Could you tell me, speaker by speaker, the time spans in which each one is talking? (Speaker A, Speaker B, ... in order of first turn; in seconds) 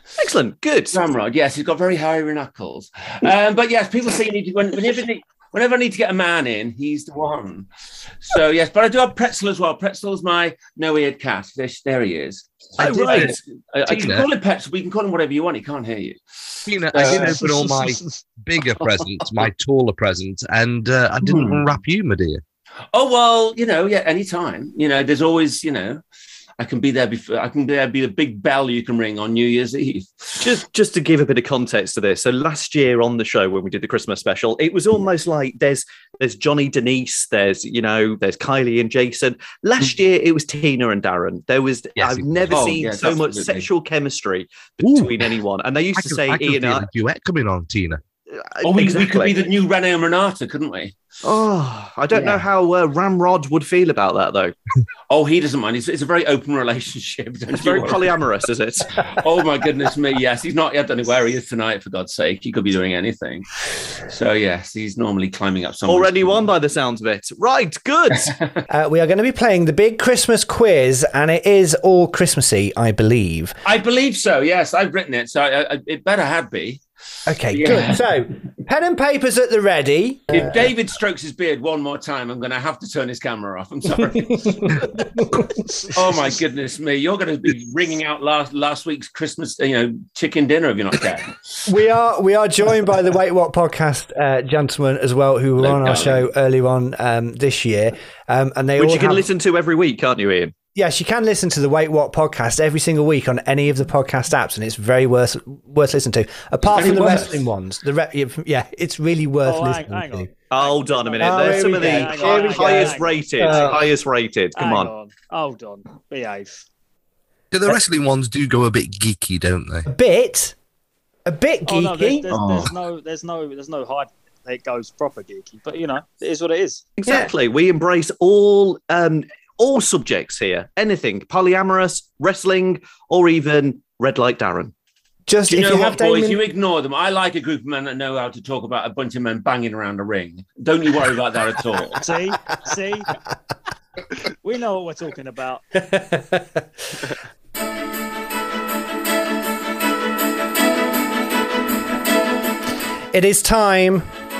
Speaker A: 0.2-1.0, 12.8-13.3, 30.4-46.9, 48.3-49.4, 51.2-54.5, 57.5-58.9, 65.8-68.3, 98.8-100.5, 110.5-114.9, 127.0-134.7
Speaker B: 0.9-7.7, 8.2-17.4, 21.2-21.6, 22.9-26.0, 26.6-30.5, 42.5-43.7, 48.6-51.0, 55.1-58.0, 59.1-63.5, 64.1-66.5, 73.6-76.8, 77.5-78.0, 80.3-84.8, 85.8-91.4, 95.6-96.3, 106.7-107.4, 122.3-122.7, 135.5-142.0
Speaker C: 12.8-13.3, 13.9-14.3, 16.7-22.4, 42.0-42.7, 44.8-45.3, 45.9-48.0, 117.5-119.9
Speaker D: 68.7-73.5, 77.3-80.6, 84.3-85.5, 91.7-99.3, 100.7-110.3, 111.2-113.9, 119.8-120.5, 121.2-122.3, 127.0-127.3, 135.3-136.4, 145.8-146.6, 153.1-154.1
Speaker E: 109.4-113.8, 114.5-116.6, 121.7-126.9, 141.9-143.1, 144.4-145.8